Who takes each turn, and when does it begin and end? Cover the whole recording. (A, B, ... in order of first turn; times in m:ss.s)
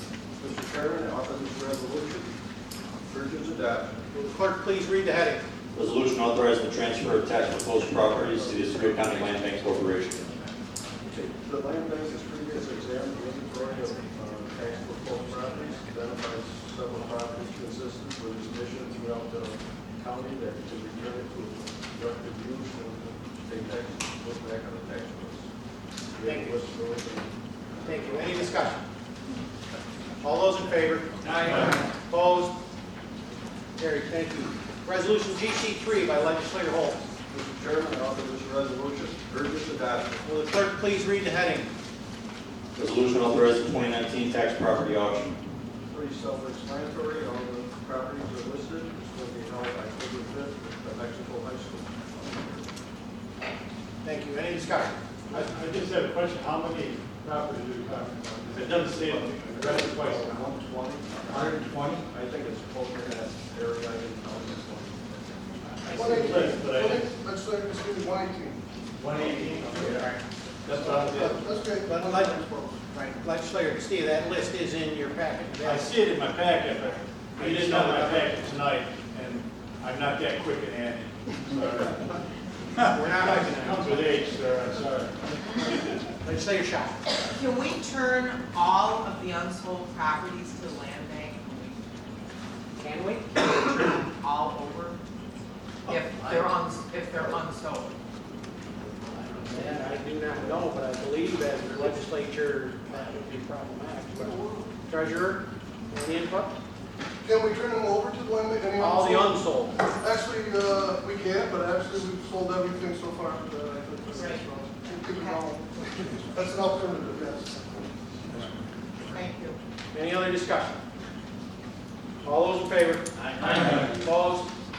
0:00.4-0:02.3 A
0:03.0-0:03.9 A
0:04.1-0:05.4 B
0:05.7-0:10.2 C
0:08.5-0:09.0 A
0:11.0-0:25.4 A
0:26.1-0:28.5 A
0:26.2-0:26.5 B
0:27.8-0:28.8 B
0:30.2-0:32.5 B
0:31.4-0:31.8 D
0:33.8-0:37.0 B
0:37.3-0:40.2 A
0:40.2-0:41.7 B
0:42.8-0:45.3 C
0:45.9-0:52.7 A
0:54.0-0:55.0 B
0:55.3-1:00.4 D
0:58.6-1:05.4 A
1:01.3-1:02.0 D
1:05.6-1:07.1 D
1:05.9-1:08.6 E
1:09.0-1:11.4 D
1:10.8-1:12.8 E
1:11.8-1:12.4 B
1:12.9-1:15.9 B
1:15.6-1:22.2 D
1:17.4-1:18.2 B
1:22.8-1:26.0 D
1:22.9-1:24.2 B
1:26.2-1:27.0 B
1:27.1-1:31.8 F
1:32.8-1:33.3 B
1:33.6-1:35.0 F
1:35.9-1:37.9 F
1:35.9-1:36.5 B
1:39.1-1:44.3 B
1:44.1-1:44.7 E
1:44.9-1:46.5 B
1:47.2-1:58.5 E
1:48.8-1:49.8 B
1:54.1-1:54.4 F
1:55.1-1:55.4 F
1:59.0-1:59.6 F
1:59.9-2:00.8 B
2:02.2-2:04.5 B
2:03.2-2:03.9 D